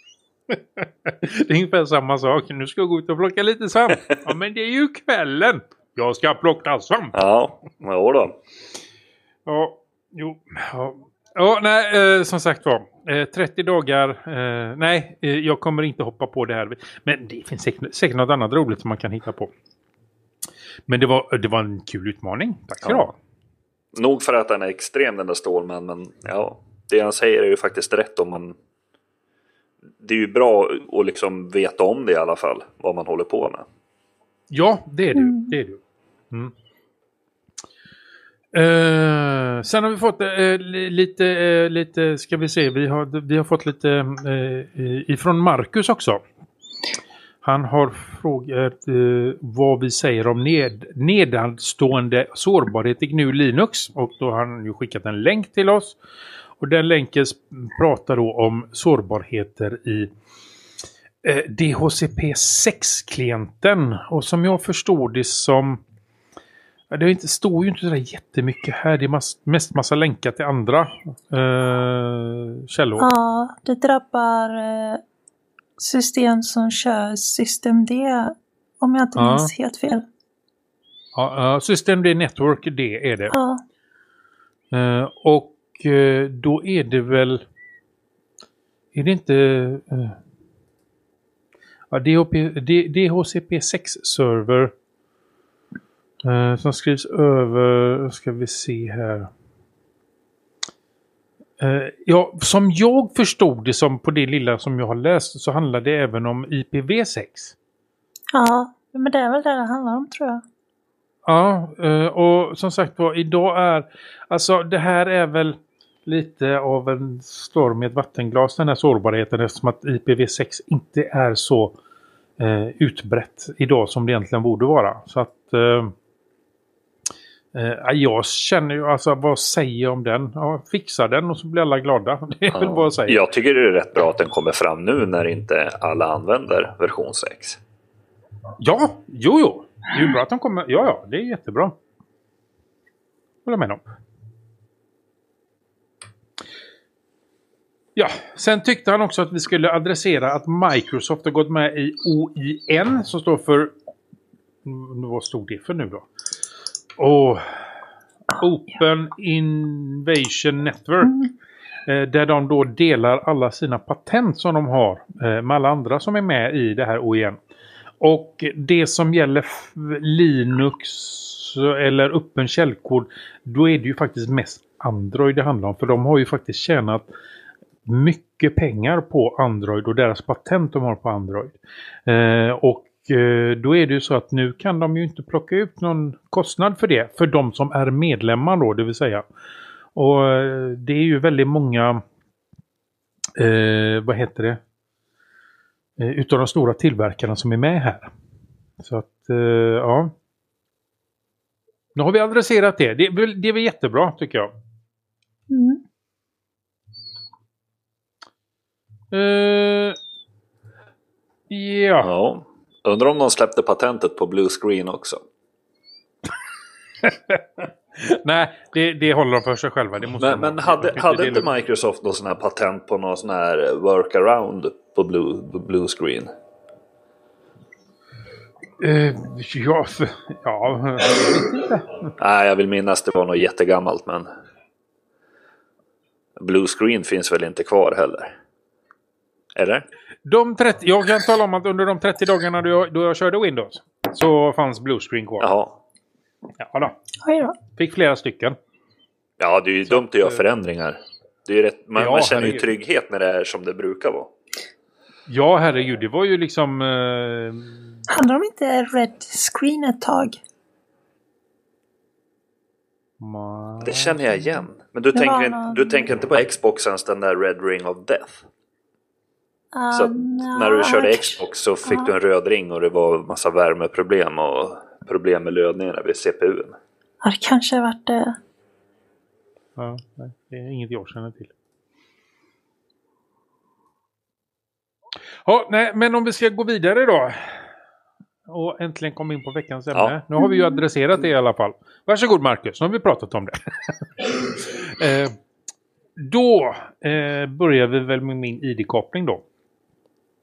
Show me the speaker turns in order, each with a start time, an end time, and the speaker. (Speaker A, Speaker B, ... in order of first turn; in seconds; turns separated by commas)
Speaker A: 0.5-7.2, Speaker B: 7.1-8.4, Speaker A: 9.4-19.5, Speaker A: 20.9-23.1, Speaker B: 22.8-23.1, Speaker B: 23.9-28.6, Speaker B: 30.0-33.6, Speaker A: 34.5-36.5, Speaker C: 35.1-35.5, Speaker A: 38.5-46.2, Speaker A: 47.4-56.0, Speaker A: 56.6-60.1, Speaker A: 61.2-65.8, Speaker A: 66.9-73.1, Speaker C: 73.0-75.0, Speaker C: 75.8-80.0, Speaker A: 79.2-79.5, Speaker A: 81.2-83.3, Speaker C: 83.3-83.6, Speaker A: 84.7-87.4, Speaker A: 88.9-90.2, Speaker A: 91.9-94.7, Speaker A: 96.2-99.3, Speaker A: 101.6-107.5, Speaker C: 108.3-110.4, Speaker A: 111.3-121.8, Speaker A: 122.4-125.9, Speaker A: 127.5-133.2, Speaker B: 132.5-137.6, Speaker A: 138.6-141.8, Speaker A: 143.4-143.8, Speaker A: 147.9-153.7, Speaker A: 154.7-156.1, Speaker A: 157.0-157.5, Speaker A: 158.3-161.2, Speaker A: 161.8-167.4, Speaker A: 168.0-177.0, Speaker A: 177.8-181.6, Speaker A: 182.1-189.2, Speaker A: 189.9-192.0, Speaker A: 193.4-194.6, Speaker A: 196.0-198.1, Speaker A: 198.8-200.1, Speaker A: 201.9-204.5, Speaker C: 205.5-205.8, Speaker A: 209.1-210.0, Speaker A: 211.5-212.1, Speaker B: 212.0-215.2, Speaker A: 217.0-221.5, Speaker B: 220.2-226.3, Speaker A: 228.8-232.1, Speaker B: 232.2-234.3, Speaker B: 236.4-238.3, Speaker B: 239.5-239.8, Speaker A: 240.2-245.5, Speaker B: 245.4-245.8, Speaker A: 246.6-247.0, Speaker C: 247.2-247.6, Speaker A: 247.7-248.6, Speaker B: 249.4-254.3, Speaker A: 249.9-250.4, Speaker A: 251.9-252.7, Speaker A: 255.3-258.0, Speaker C: 258.1-260.4, Speaker A: 263.2-264.4, Speaker B: 263.8-268.5, Speaker C: 265.1-266.1, Speaker C: 269.7-272.1, Speaker B: 269.9-276.7, Speaker C: 277.2-278.4, Speaker A: 279.8-281.5, Speaker A: 285.4-287.6, Speaker A: 288.5-293.6, Speaker A: 294.2-295.4, Speaker A: 296.2-299.4